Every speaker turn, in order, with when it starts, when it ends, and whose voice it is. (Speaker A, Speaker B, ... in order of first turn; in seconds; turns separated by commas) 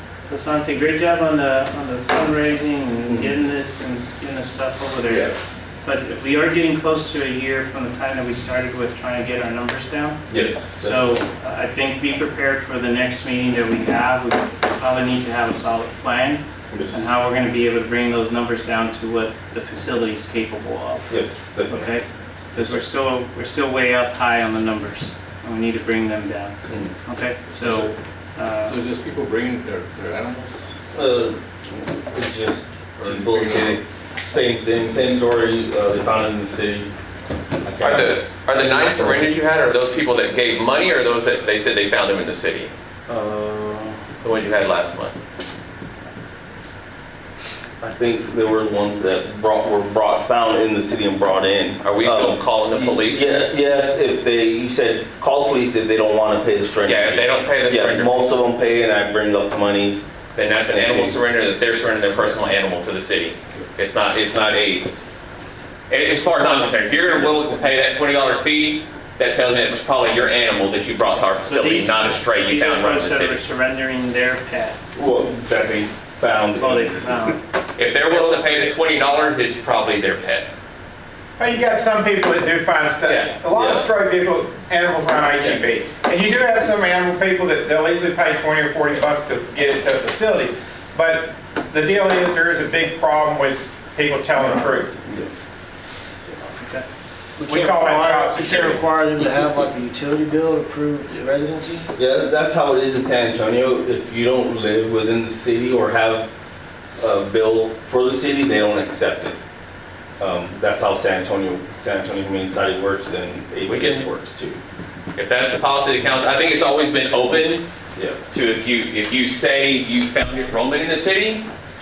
Speaker A: 0.2-28.8, Speaker B: 3.1-3.4, Speaker B: 5.0-5.3, Speaker B: 10.3-11.2, Speaker B: 16.7-17.0, Speaker B: 21.1-22.0, Speaker B: 22.5-22.8, Speaker B: 26.7-26.9, Speaker C: 28.7-30.5, Speaker B: 30.9-36.9, Speaker C: 33.0-33.7, Speaker B: 37.6-39.3, Speaker D: 37.8-42.7, Speaker B: 43.1-44.0, Speaker D: 44.2-45.2, Speaker B: 47.8-60.0, Speaker D: 51.8-53.3, Speaker D: 56.9-58.3, Speaker D: 60.4-64.9, Speaker B: 60.7-61.2, Speaker D: 65.9-73.4, Speaker A: 71.5-74.8, Speaker B: 74.9-77.2, Speaker A: 76.6-77.4, Speaker D: 77.8-80.5, Speaker E: 81.4-95.0, Speaker D: 83.0-83.3, Speaker B: 83.5-83.9, Speaker B: 95.0-95.3, Speaker A: 96.3-96.9, Speaker F: 97.4-101.9, Speaker E: 97.5-98.8, Speaker B: 102.0-106.3, Speaker B: 107.0-109.4, Speaker B: 110.2-114.6, Speaker D: 113.7-114.1, Speaker D: 115.2-117.6, Speaker D: 118.3-121.5